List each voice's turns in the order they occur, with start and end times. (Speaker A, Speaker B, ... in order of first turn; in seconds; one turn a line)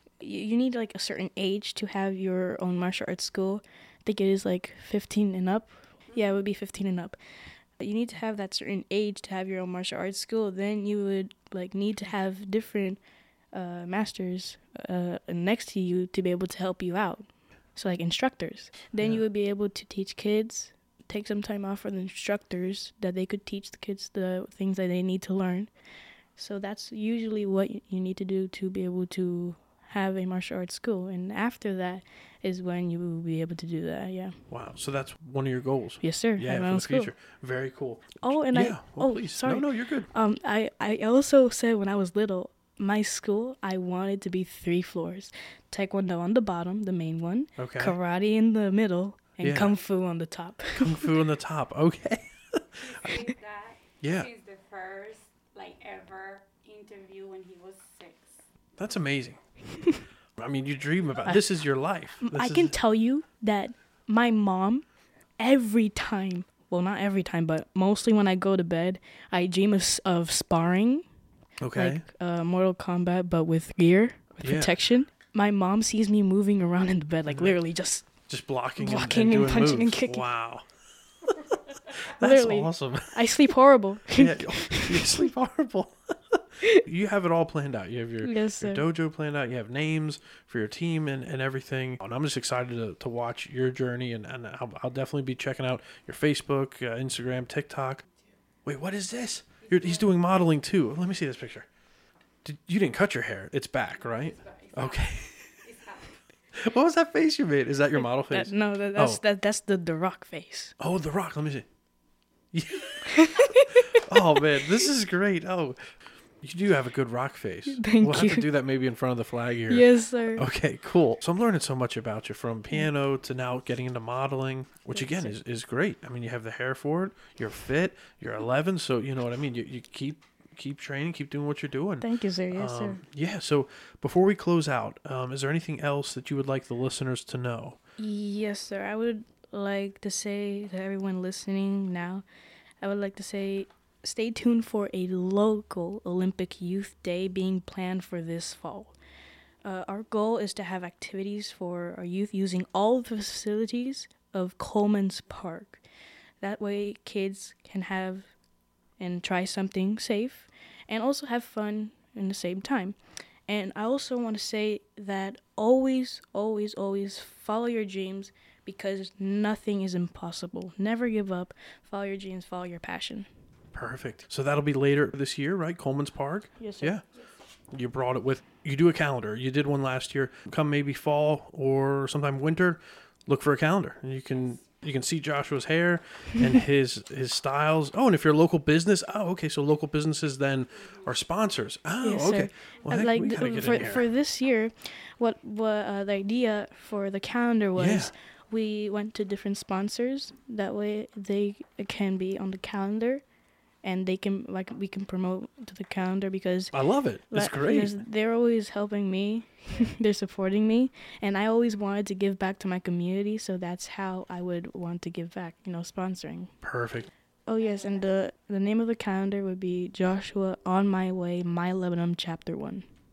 Speaker A: 0.2-34.4
Speaker B: 19.0-19.2
Speaker B: 34.5-40.1
Speaker A: 36.0-37.2
Speaker A: 38.2-51.1
Speaker B: 47.6-48.0
Speaker B: 49.4-49.8
Speaker B: 50.8-53.1
Speaker C: 52.8-58.8
Speaker B: 54.0-54.3
Speaker B: 58.8-62.8
Speaker A: 61.2-71.1
Speaker B: 71.6-72.0
Speaker A: 71.7-80.3
Speaker B: 74.4-74.8
Speaker B: 77.3-81.6
Speaker B: 82.1-83.5
Speaker A: 82.2-85.2
Speaker B: 84.1-98.1
Speaker A: 88.2-88.8
Speaker B: 98.6-105.5
Speaker C: 99.6-100.1
Speaker C: 104.0-106.3
Speaker B: 106.6-109.2
Speaker A: 108.2-110.8
Speaker B: 110.8-111.8
Speaker B: 112.5-137.8
Speaker A: 113.3-113.8
Speaker A: 117.7-118.5
Speaker A: 119.7-120.5
Speaker A: 124.9-125.3
Speaker A: 132.0-133.0
Speaker A: 138.0-142.2
Speaker A: 142.8-149.0
Speaker A: 149.6-155.8
Speaker A: 156.4-158.3
Speaker A: 159.0-173.3
Speaker B: 173.7-194.1
Speaker A: 176.6-176.9
Speaker C: 184.3-184.7
Speaker C: 190.7-191.1
Speaker A: 192.0-216.6
Speaker B: 197.8-198.1
Speaker B: 206.7-208.0
Speaker B: 216.6-217.1
Speaker A: 217.5-222.9